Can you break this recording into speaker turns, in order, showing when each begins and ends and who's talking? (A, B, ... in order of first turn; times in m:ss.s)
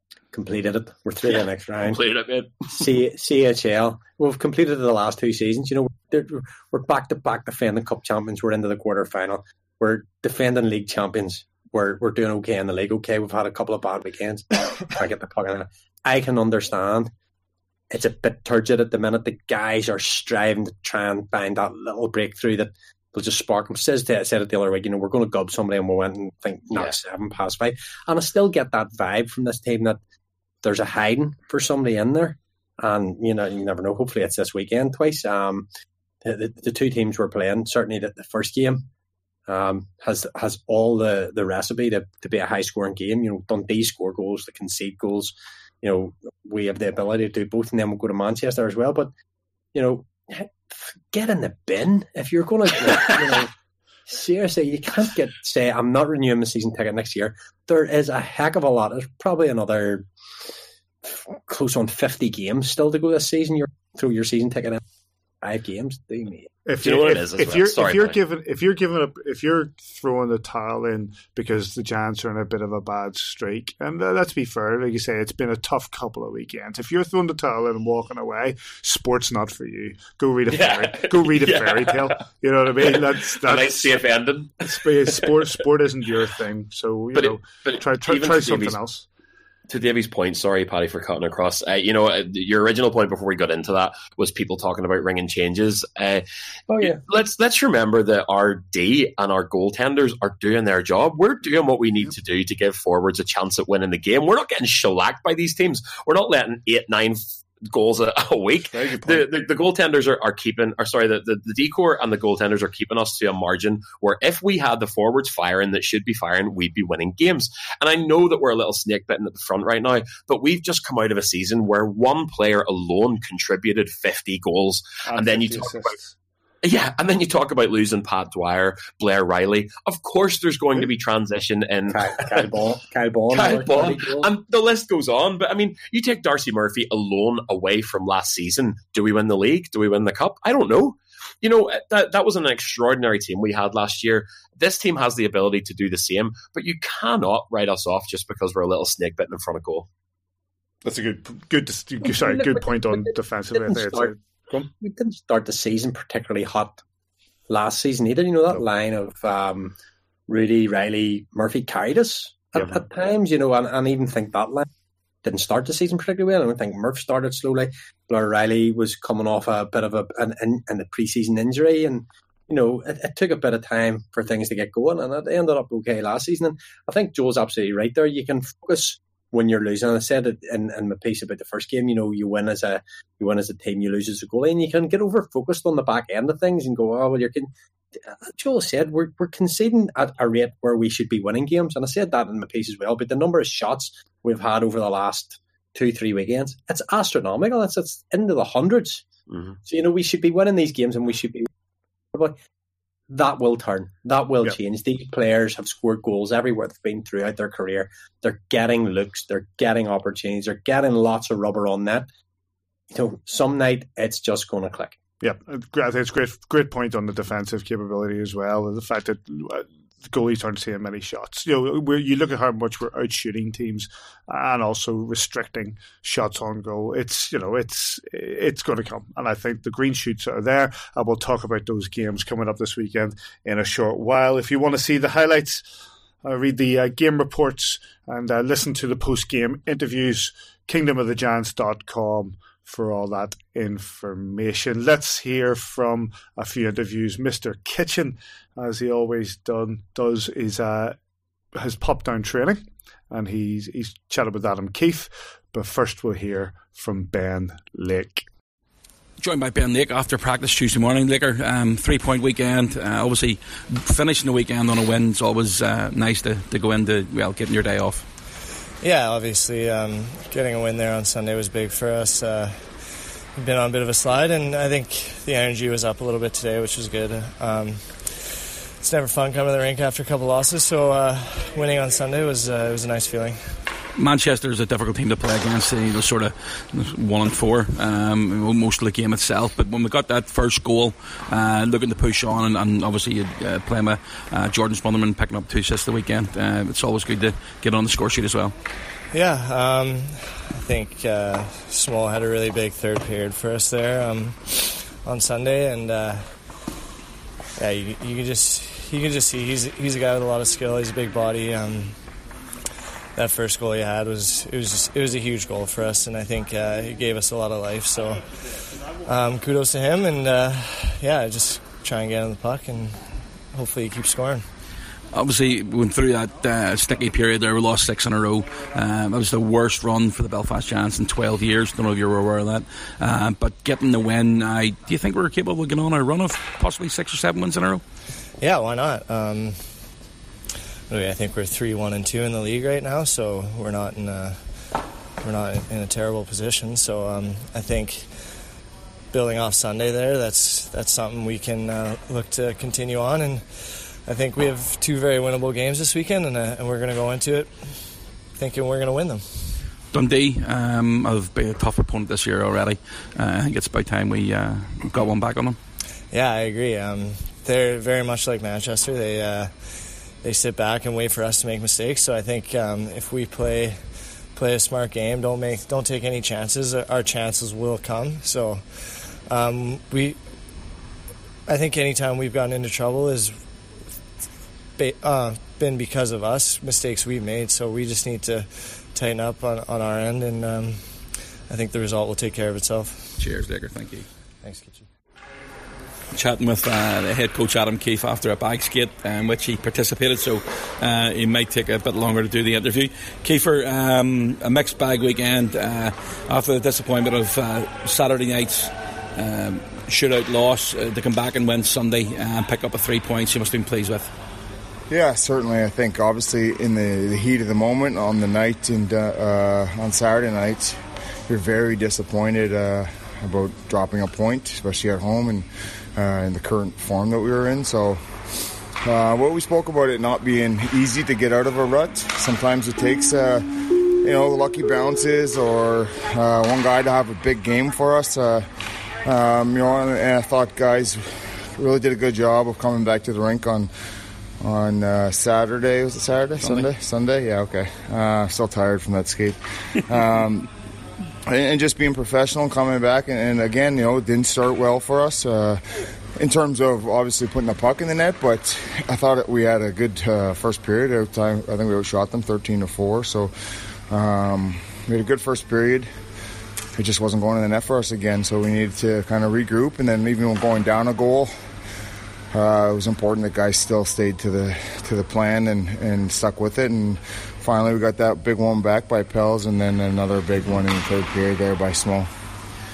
0:00.3-0:02.0 A
0:01.9-0:02.7 B
0:02.7-0:17.1 A
0:17.9-0:30.0 A
0:30.6-0:35.7 A
0:36.2-0:38.9 A
0:39.5-0:49.1 A
0:49.7-0:53.5 A
0:54.1-1:00.1 A
1:01.0-1:04.8 A
1:05.4-1:06.5 A
1:06.7-1:24.0 C
1:06.8-1:08.2 B
1:20.5-1:22.1 B
1:22.9-1:24.9 B
1:24.6-1:29.1 C
1:27.2-1:28.8 B
1:29.7-1:36.2 B
1:36.7-1:37.0 A
1:36.8-2:06.0 B
1:48.7-1:49.3 C
2:05.1-2:06.2 C
2:06.6-2:12.5 B
2:11.9-2:14.3 A
2:13.3-2:29.9 B
2:30.8-2:34.7 C
2:32.0-2:34.1 A
2:34.7-2:36.8 A
2:37.5-2:39.8 A
2:40.3-2:44.7 A
2:45.2-3:19.1 A
3:19.3-3:19.6 B
3:19.6-3:21.5 A
3:22.1-3:22.4 A
3:23.1-3:32.1 A
3:32.9-3:35.0 A
3:35.2-3:55.6 C
3:56.2-4:11.0 C
4:11.6-4:18.2 C
4:19.2-4:28.1 D
4:28.8-4:32.8 E
4:33.4-4:43.6 E
4:44.0-4:58.5 D
4:59.1-5:06.4 E
5:07.6-5:12.0 E
5:13.2-5:24.5 E
5:25.1-5:37.8 D
5:38.4-5:39.7 E
5:40.9-5:48.4 E
5:49.1-5:59.6 E
5:59.9-6:05.6 D
6:06.1-6:20.2 E
6:21.5-6:23.4 E
6:24.8-6:33.2 E
6:33.2-6:34.1 D
6:34.4-6:34.8 E
6:36.1-6:54.1 D
6:54.9-7:08.1 F
7:08.8-7:18.5 F
7:19.0-7:23.7 F
7:24.4-7:30.5 F
7:31.3-7:43.3 F
7:43.9-7:45.9 F
7:46.8-7:51.3 F
7:52.3-8:02.1 F